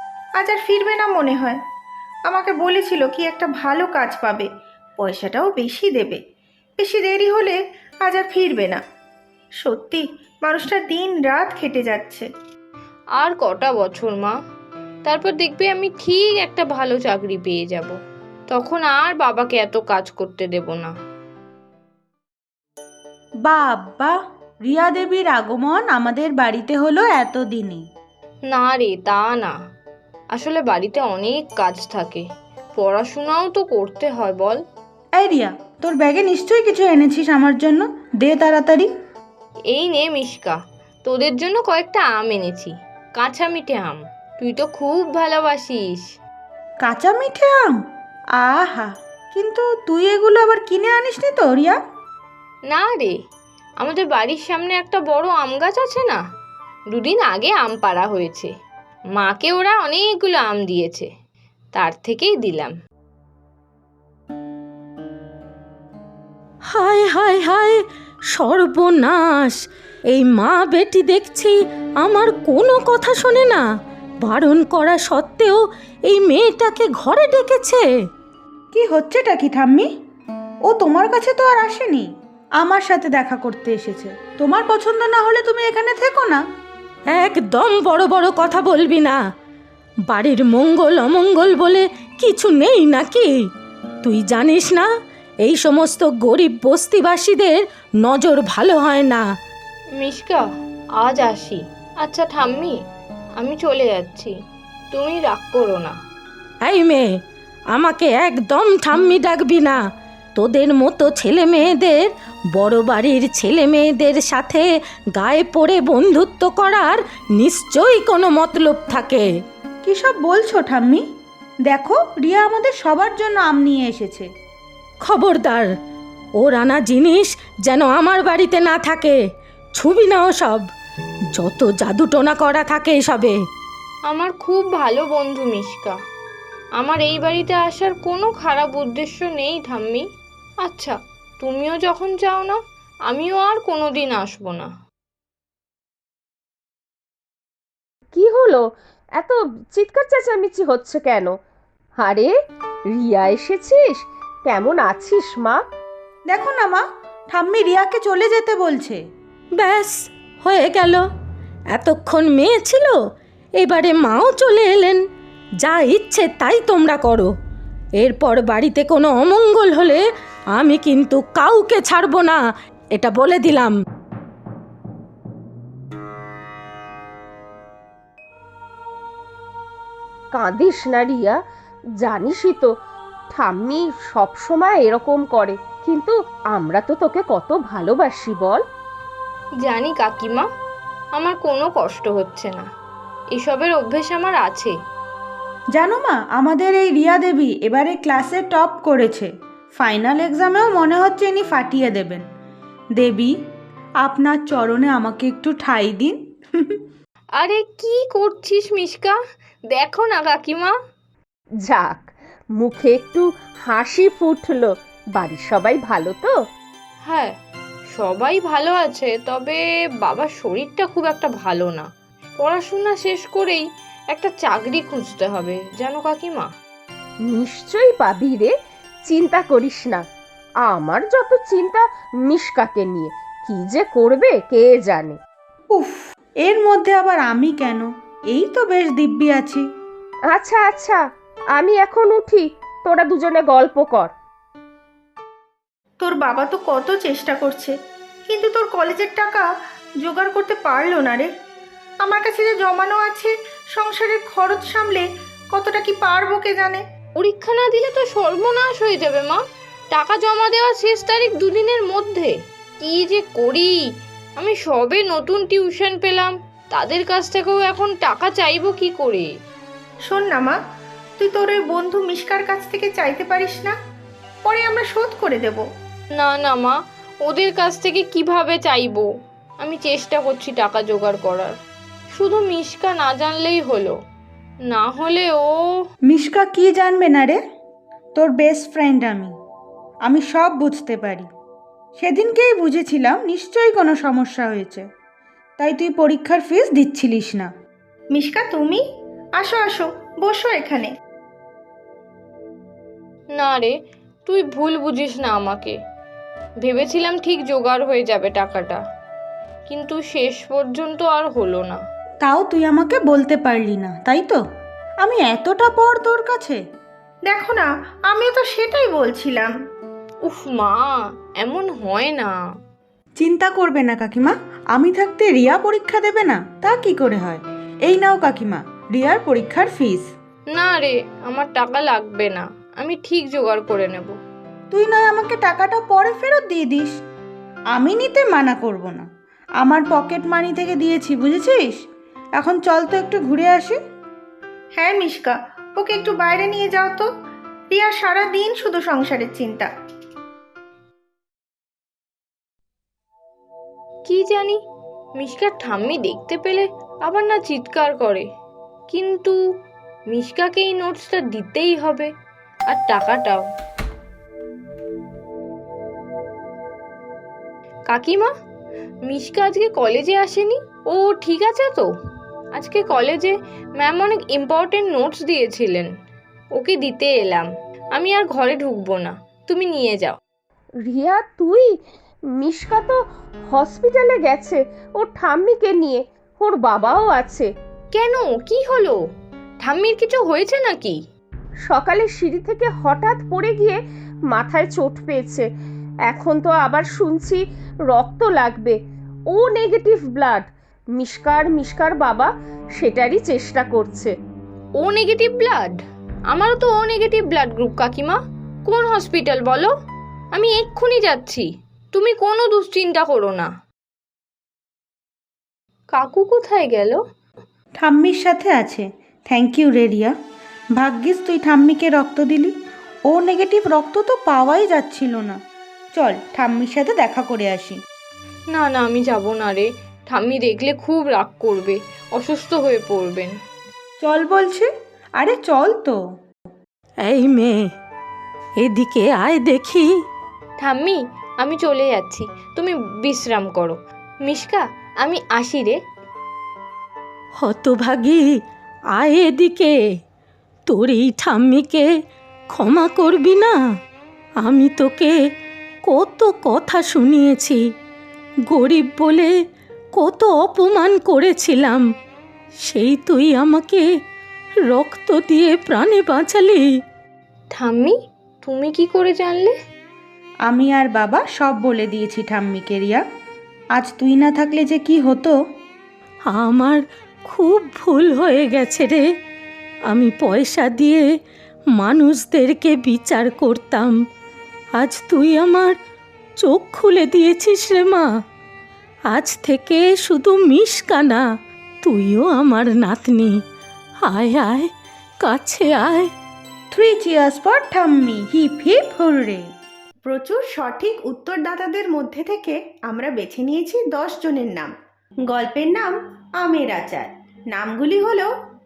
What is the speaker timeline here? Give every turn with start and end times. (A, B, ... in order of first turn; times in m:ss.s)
0:00.4-0:01.6 A
0:02.3-0:06.2 A
0:06.8-0:08.8 A
0:09.6-0:12.3 A
0:13.2-0:14.4 B
0:15.0-0:18.0 B
0:18.5-0:20.9 B
0:23.4-0:27.9 C
0:28.5-0:29.6 B
0:30.3-0:34.6 B
0:35.2-0:38.9 C
0:39.7-0:46.0 B
0:46.8-0:47.8 C
0:48.4-0:51.8 C
0:52.7-0:53.2 B
0:53.8-0:56.2 B
0:56.9-0:58.5 B
0:59.2-1:01.1 B
1:01.7-1:02.7 B
1:06.7-1:07.8 D
1:08.3-1:13.6 D
1:14.2-1:17.9 D
1:18.7-1:19.9 C
1:20.7-1:26.4 C
1:27.1-1:29.2 D
1:30.1-1:33.3 D
1:34.0-1:34.9 D
1:35.4-1:39.2 D
1:40.0-1:40.5 B
1:41.0-1:42.8 B
1:43.4-1:44.3 B
1:44.9-1:46.0 B
1:46.6-1:47.1 D
1:47.7-1:49.8 D
1:50.4-1:59.3 D
1:59.8-2:01.0 C
2:01.6-2:04.3 C
2:05.0-2:05.7 D
2:06.4-2:09.2 D
2:09.7-2:10.7 D
2:11.3-2:13.4 D
2:14.1-2:16.0 B
2:16.8-2:20.0 B
2:20.6-2:22.6 B
2:23.1-2:24.7 B
2:28.1-2:28.6 E
2:29.2-2:31.3 E
2:32.0-2:32.3 E
2:33.0-2:35.6 E
2:36.3-2:39.0 C
2:39.6-2:41.0 D
2:41.7-2:43.0 D
2:43.6-2:45.0 D
2:45.6-2:47.3 D
2:48.0-2:52.4 D
2:52.9-2:53.7 D
3:00.3-3:01.4 E
3:02.0-3:02.7 E
3:03.3-3:08.6 E
3:09.6-3:10.5 B
3:11.2-3:12.6 B
3:13.3-3:14.8 B
3:15.7-3:22.2 C
3:23.0-3:23.3 C
3:24.0-3:26.8 C
3:27.4-3:29.2 B
3:29.7-3:30.8 B
3:31.6-3:36.4 E
3:37.1-3:37.3 B
3:37.9-3:41.9 B
3:42.4-3:46.5 B
3:47.3-3:48.5 E
3:49.1-3:50.0 E
3:50.7-3:55.2 E
3:55.7-3:59.6 C
4:00.3-4:01.0 E
4:01.6-4:04.1 E
4:06.0-4:07.7 A
4:08.3-4:09.5 A
4:10.0-4:11.3 A
4:12.0-4:16.8 A
4:17.2-4:19.4 B
4:19.9-4:23.8 B
4:24.4-4:29.3 B
4:30.1-4:30.6 A
4:31.2-4:33.8 A
4:34.4-4:35.6 A
4:36.2-4:39.1 B
4:39.6-4:41.6 B
4:42.1-4:44.0 B
4:44.7-4:45.8 B
4:46.1-4:47.4 C
4:48.2-4:49.3 C
4:50.0-4:51.3 C
4:52.0-4:54.9 C
4:55.6-4:57.5 C
4:58.1-4:58.8 A
4:59.4-5:00.9 A
5:03.4-5:03.7 B
5:04.3-5:05.8 B
5:06.6-5:08.8 B
5:09.7-5:11.8 B
5:12.2-5:14.4 C
5:15.0-5:16.6 C
5:17.3-5:19.5 A
5:20.2-5:22.4 B
5:23.2-5:30.1 C
5:30.5-5:34.2 B
5:34.7-5:36.9 C
5:37.7-5:39.0 C
5:39.6-5:41.8 C
5:42.4-5:43.8 C
5:44.8-5:47.1 A
5:47.7-5:49.7 A
5:54.1-5:54.6 B
5:55.2-5:58.3 B
5:58.9-5:59.4 B
6:00.1-6:02.1 B
6:02.7-6:03.4 B
6:07.9-6:08.3 B
6:09.1-6:11.9 B
6:12.5-6:15.9 B
6:16.6-6:20.2 B
6:20.9-6:21.7 E
6:22.4-6:23.0 E
6:23.5-6:27.5 E
6:27.9-6:29.0 B
6:29.6-6:31.0 B
6:31.7-6:33.8 E
6:34.3-6:35.5 E
6:36.1-6:38.8 E
6:39.3-6:44.1 E
6:44.8-6:45.8 B
6:46.3-6:49.7 B
6:50.3-6:53.5 B
6:55.9-6:57.0 B
6:57.8-7:00.1 C
7:00.8-7:02.5 C
7:03.1-7:05.4 C
7:06.0-7:07.8 C
7:08.5-7:13.3 B
7:14.0-7:16.0 C
7:17.0-7:17.7 D
7:18.6-7:19.9 D
7:20.6-7:25.8 B
7:27.4-7:28.2 D
7:28.9-7:29.7 D
7:30.7-7:31.9 D
7:32.5-7:33.6 D
7:34.4-7:35.1 D
7:35.8-7:37.6 D
7:38.5-7:39.3 D
7:39.9-7:41.8 D
7:42.6-7:43.9 D
7:44.7-7:46.7 D
7:47.5-7:49.6 B
7:50.5-7:53.0 C
7:53.8-7:55.4 C
7:56.2-7:59.0 D
7:59.9-8:01.0 D
8:01.8-8:04.0 D
8:04.8-8:05.8 D
8:06.4-8:08.1 D
8:09.1-8:11.2 D
8:11.8-8:13.4 D
8:14.0-8:16.1 D
8:16.7-8:19.5 C
8:20.1-8:24.7 A
8:25.3-8:28.3 A